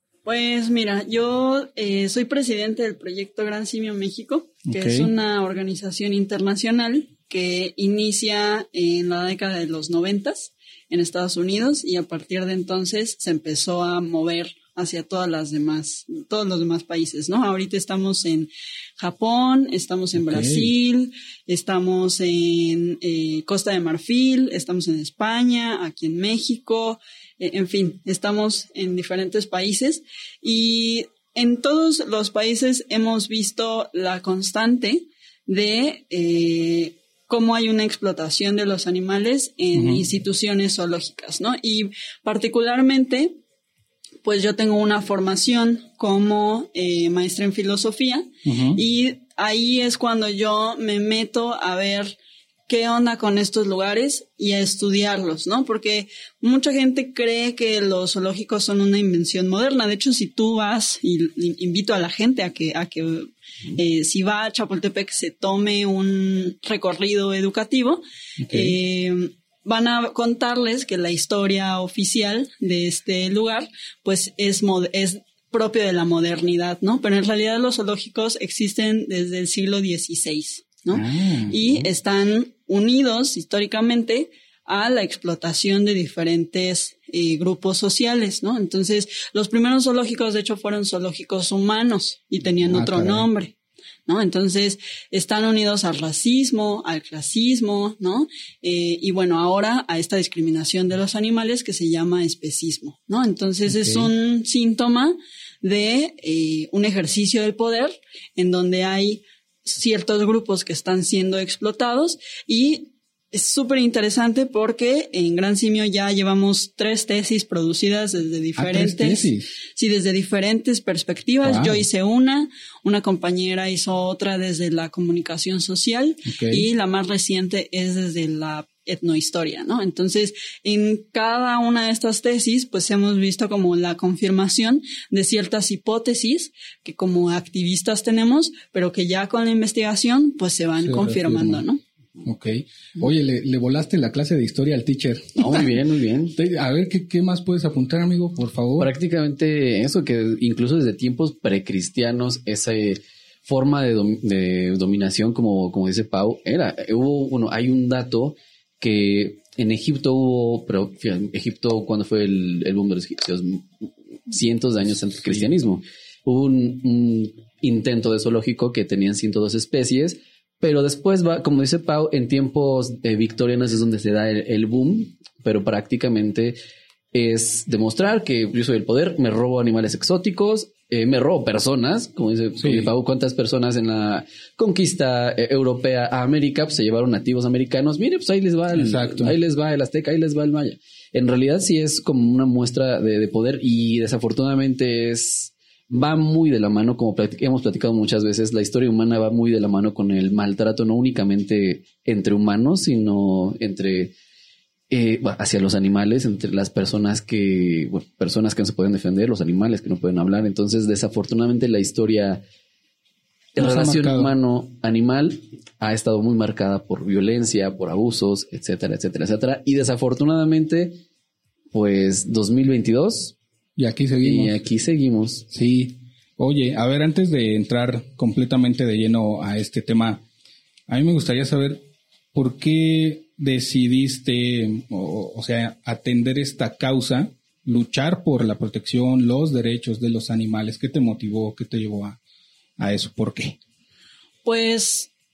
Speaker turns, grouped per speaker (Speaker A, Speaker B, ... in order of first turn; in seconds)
Speaker A: 0.2-43.4, 44.2-93.5, 94.1-141.8, 244.4-245.1
Speaker B: 4.7-5.1, 20.2-20.7, 39.8-40.0, 48.5-48.8, 68.4-68.8, 80.9-81.6, 92.7-93.3, 103.7-104.1, 118.6-119.5, 121.4-121.8, 126.3-126.7, 140.8-141.6, 142.2-145.7, 146.3-148.9, 182.6-182.9, 188.7-189.3, 213.6-214.3, 223.8-224.6, 225.5-230.2, 230.9-231.8, 232.3-242.2, 242.8-243.6
Speaker C: 145.4-146.4, 148.8-176.6, 177.1-204.1, 204.9-212.4, 213.6-221.0, 221.7-223.3, 224.2-225.5